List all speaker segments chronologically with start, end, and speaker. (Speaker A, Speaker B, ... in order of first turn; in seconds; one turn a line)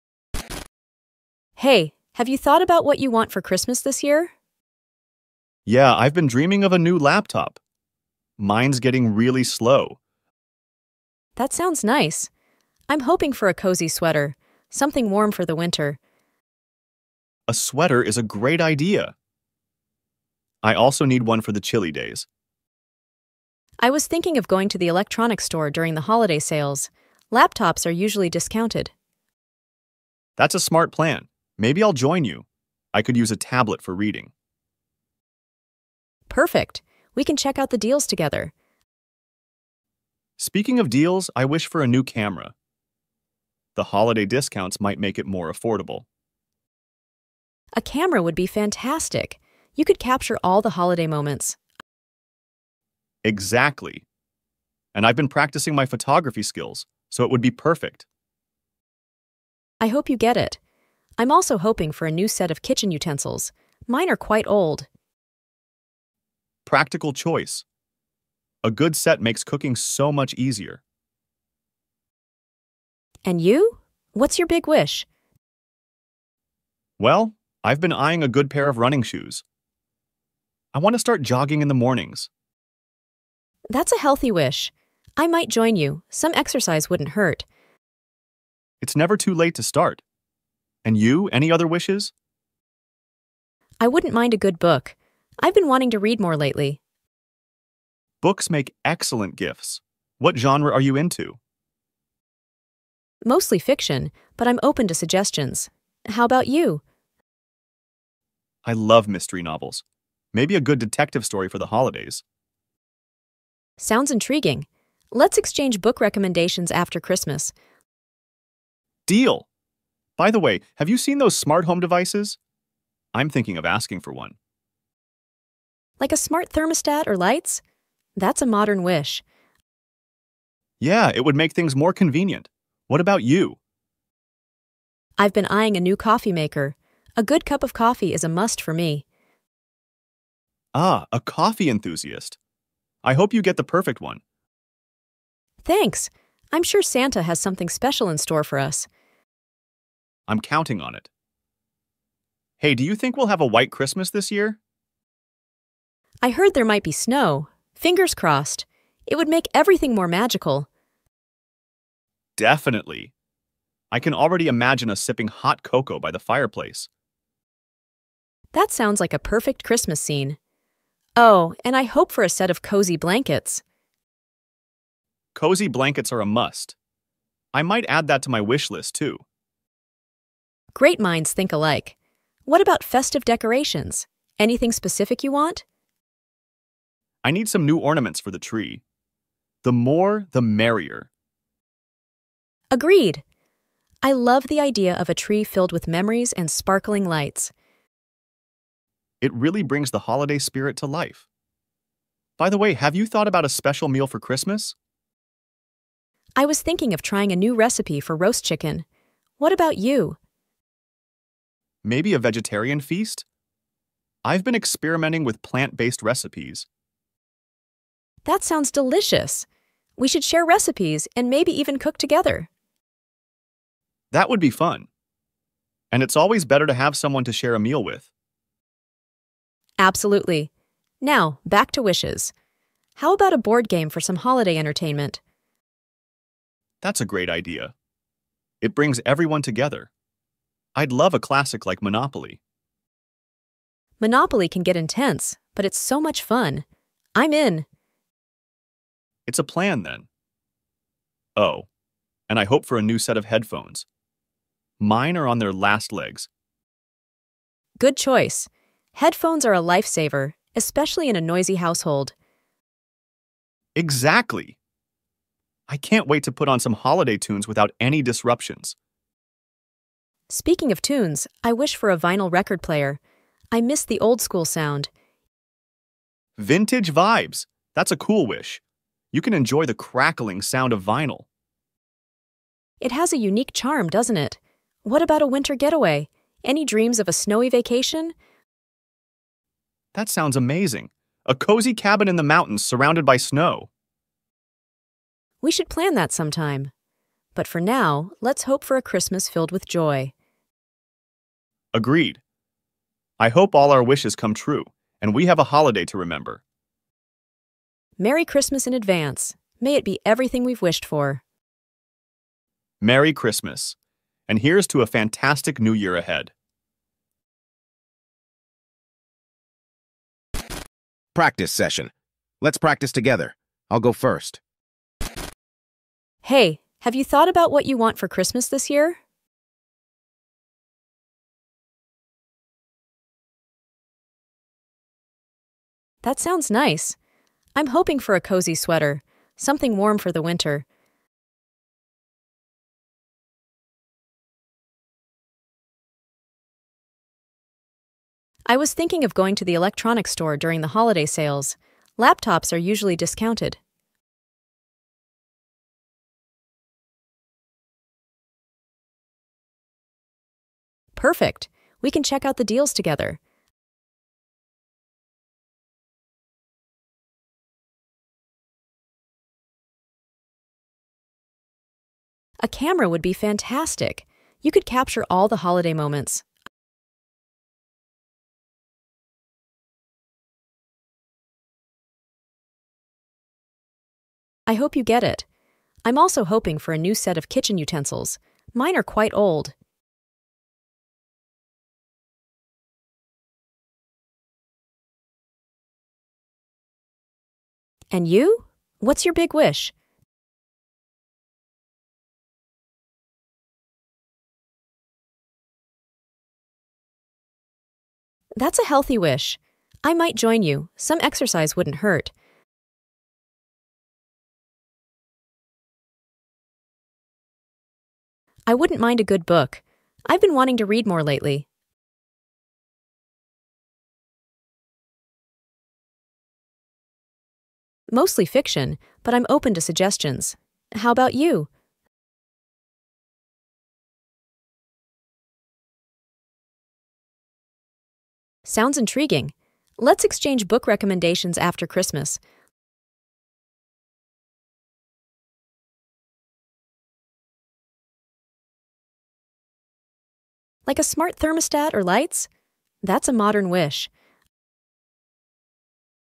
Speaker A: 1.6-4.3
Speaker B: 5.7-7.6
Speaker B: 8.4-10.0
Speaker A: 11.4-12.3
Speaker A: 12.9-16.0
Speaker B: 17.5-19.1
Speaker B: 20.6-22.3
Speaker A: 23.8-28.9
Speaker B: 30.4-34.3
Speaker A: 36.3-38.5
Speaker B: 40.4-42.5
Speaker B: 43.8-46.1
Speaker A: 47.8-51.6
Speaker B: 53.2-54.0
Speaker B: 54.9-58.1
Speaker A: 59.8-60.6
Speaker A: 61.2-64.9
Speaker B: 66.7-67.7
Speaker B: 68.7-70.8
Speaker A: 73.3-75.1
Speaker B: 77.0-79.4
Speaker B: 80.7-82.3
Speaker A: 83.7-87.5
Speaker B: 88.8-90.0
Speaker B: 90.8-92.1
Speaker A: 93.8-96.8
Speaker B: 98.2-101.4
Speaker A: 103.2-106.8
Speaker B: 108.7-112.2
Speaker A: 113.8-117.5
Speaker B: 119.1-119.5
Speaker B: 120.2-122.4
Speaker B: 123.1-124.4
Speaker A: 126.0-127.6
Speaker A: 128.2-129.2
Speaker B: 130.8-133.6
Speaker A: 135.2-139.0
Speaker B: 140.7-142.4
Speaker B: 143.0-144.2
Speaker A: 145.7-148.9
Speaker B: 150.3-151.1
Speaker B: 152.6-154.6
Speaker A: 156.2-160.7
Speaker B: 162.4-163.1
Speaker B: 163.9-166.9
Speaker A: 168.5-170.4
Speaker A: 171.2-173.6
Speaker B: 175.3-176.8
Speaker B: 177.5-179.2
Speaker A: 180.8-181.9
Speaker A: 182.5-185.6
Speaker B: 187.2-188.8
Speaker B: 189.6-191.1
Speaker A: 192.7-193.2
Speaker A: 194.0-197.5
Speaker B: 199.2-201.2
Speaker B: 202.4-204.8
Speaker A: 206.4-208.8
Speaker A: 209.4-210.2
Speaker B: 211.8-213.3
Speaker B: 214.2-216.7
Speaker A: 218.2-219.5
Speaker A: 220.0-222.5
Speaker B: 224.1-224.9
Speaker B: 225.9-228.1
Speaker A: 229.8-230.5
Speaker A: 231.0-232.3
Speaker A: 233.0-235.2
Speaker B: 236.8-237.7
Speaker B: 238.6-239.9
Speaker B: 240.8-242.4
Speaker A: 244.0-246.7
Speaker A: 247.2-247.7
Speaker B: 249.3-250.1
Speaker B: 251.4-251.7
Speaker B: 252.3-253.9
Speaker B: 254.8-256.3
Speaker A: 257.8-262.1
Speaker B: 263.8-264.6
Speaker B: 265.7-268.8
Speaker A: 270.3-273.0
Speaker A: 273.5-274.9
Speaker B: 276.4-281.3
Speaker A: 282.8-288.1
Speaker B: 289.9-293.7
Speaker A: 295.4-296.7
Speaker A: 297.4-300.1
Speaker B: 301.7-302.2
Speaker B: 303.2-306.4
Speaker A: 308.0-311.2
Speaker B: 312.8-313.8
Speaker B: 314.3-316.3
Speaker C: 321.1-324.4
Speaker A: 326.2-329.0
Speaker A: 336.0-337.0
Speaker A: 337.6-340.6
Speaker A: 348.5-353.6
Speaker A: 361.0-363.2
Speaker A: 372.4-376.2
Speaker A: 384.5-385.3
Speaker A: 385.9-389.5
Speaker A: 397.9-399.7
Speaker A: 408.4-412.1
Speaker A: 418.5-421.5
Speaker A: 427.9-431.5
Speaker A: 438.4-442.2
Speaker A: 450.7-452.3
Speaker A: 452.8-453.9